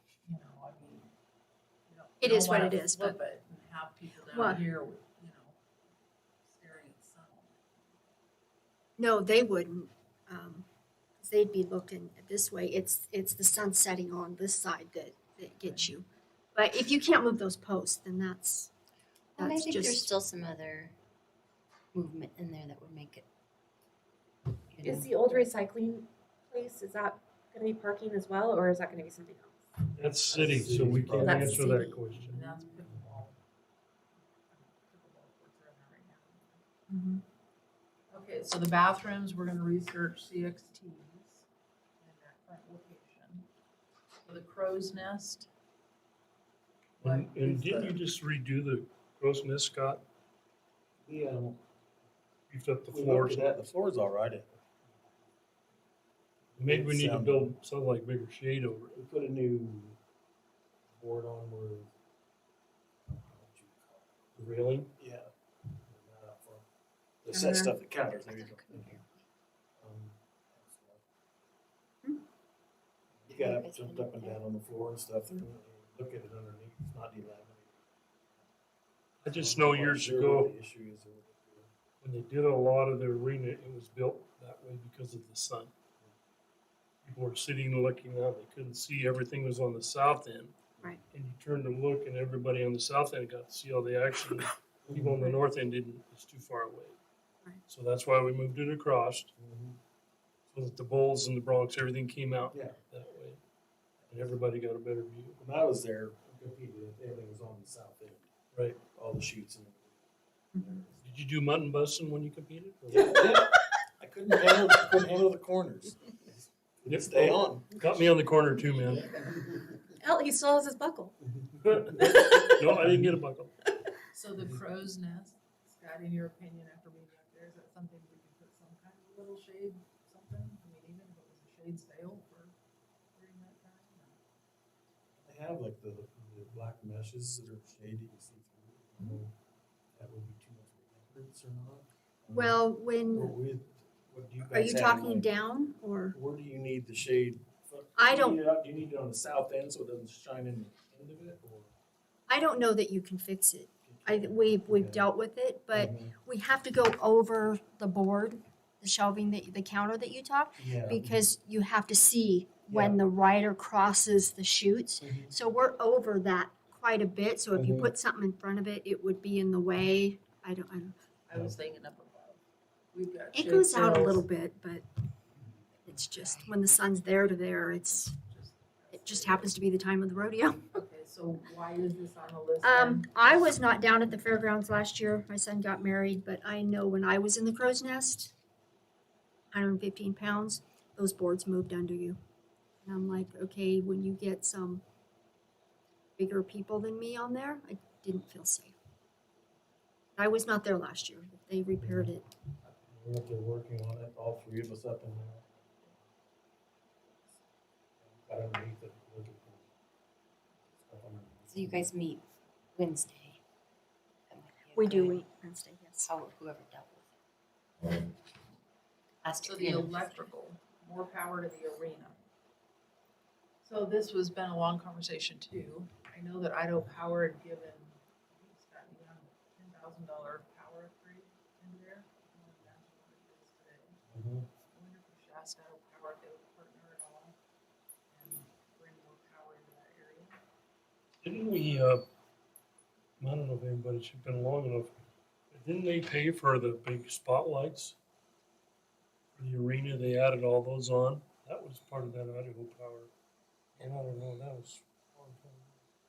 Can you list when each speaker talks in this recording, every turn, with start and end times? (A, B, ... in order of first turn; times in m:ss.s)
0:00.2-0:01.1 A
0:01.9-0:05.8 A
0:02.2-0:03.2 B
0:04.3-0:04.6 B
0:06.4-0:08.0 A
0:09.0-0:10.6 B
0:11.2-0:18.7 B
0:15.6-0:15.9 A
0:19.4-0:20.1 B
0:19.4-0:20.9 C
0:21.9-0:23.2 C
0:24.7-0:25.2 C
0:24.8-0:29.6 D
0:25.2-0:25.5 A
0:30.0-0:32.4 E
0:30.3-0:32.0 D
0:30.3-0:31.8 F
0:32.3-0:33.4 A
0:34.5-0:36.8 A
0:38.1-0:41.4 A
0:42.0-0:43.5 A
0:44.2-0:45.5 A
0:47.0-0:47.6 A
0:47.0-0:50.0 E
0:47.5-0:48.0 F
0:51.0-0:51.6 F
0:52.5-0:53.5 E
0:52.9-0:54.6 F
0:56.6-0:57.5 F
0:56.6-0:59.0 E
0:58.9-1:00.0 F
1:00.9-1:01.9 F
1:03.0-1:04.1 F
1:04.4-1:04.9 E
1:05.0-1:05.3 F
1:05.8-1:06.6 F
1:07.2-1:09.0 F
1:07.3-1:07.7 B
1:08.2-1:09.2 C
1:09.8-1:11.0 F
1:13.1-1:18.4 F
1:13.3-1:14.4 C
1:19.2-1:20.5 E
1:19.3-1:21.7 F
1:22.0-1:25.7 E
1:27.0-1:30.6 E
1:31.1-1:37.0 E
1:34.8-1:35.2 F
1:37.7-1:39.3 E
1:39.4-1:39.8 F
1:40.5-1:43.4 E
1:42.5-1:42.8 F
1:44.0-1:44.3 F
1:44.1-1:45.4 E
1:45.4-1:50.0 F
1:48.5-1:48.8 E
1:50.5-1:51.2 F
1:51.0-1:53.1 E
1:52.9-1:58.1 F
1:56.9-1:59.2 E
2:00.0-2:01.2 D
2:01.6-2:03.5 E
2:01.9-2:02.5 D
2:04.1-2:12.5 A
2:13.1-2:14.2 A
2:15.2-2:19.3 F
2:19.9-2:25.3 F
2:22.3-2:23.3 B
2:24.4-2:26.2 B
2:26.1-2:31.7 F
2:28.0-2:28.4 B
2:32.3-2:50.9 B
2:33.9-2:35.0 F
2:35.7-2:36.1 F
2:40.6-2:41.3 F
2:42.7-2:43.0 F
2:45.0-2:45.3 F
2:47.5-2:47.9 F
2:51.3-2:54.2 A
2:53.3-2:54.8 B
2:55.8-2:58.1 B
2:56.2-2:56.5 C
2:58.0-2:59.5 A
2:58.9-3:00.6 B
3:00.7-3:03.6 A
3:02.6-3:08.3 B
3:09.5-3:12.2 B
3:12.8-3:14.8 B
3:16.2-3:18.8 B
3:20.2-3:22.2 B
3:21.8-3:22.1 F
3:22.9-3:26.0 F
3:28.0-3:29.7 F
3:30.8-3:31.9 F
3:31.5-3:33.4 C
3:34.3-3:35.2 C
3:34.7-3:36.1 B
3:36.0-3:37.0 C
3:39.2-3:40.2 C
3:39.4-3:42.2 A
3:43.6-3:54.0 A
3:54.1-3:54.5 F
3:54.6-3:57.4 A
3:58.1-4:00.4 A
4:01.2-4:02.0 E
4:03.2-4:04.9 E
4:05.5-4:08.0 E
4:09.4-4:13.1 E
4:13.8-4:15.8 E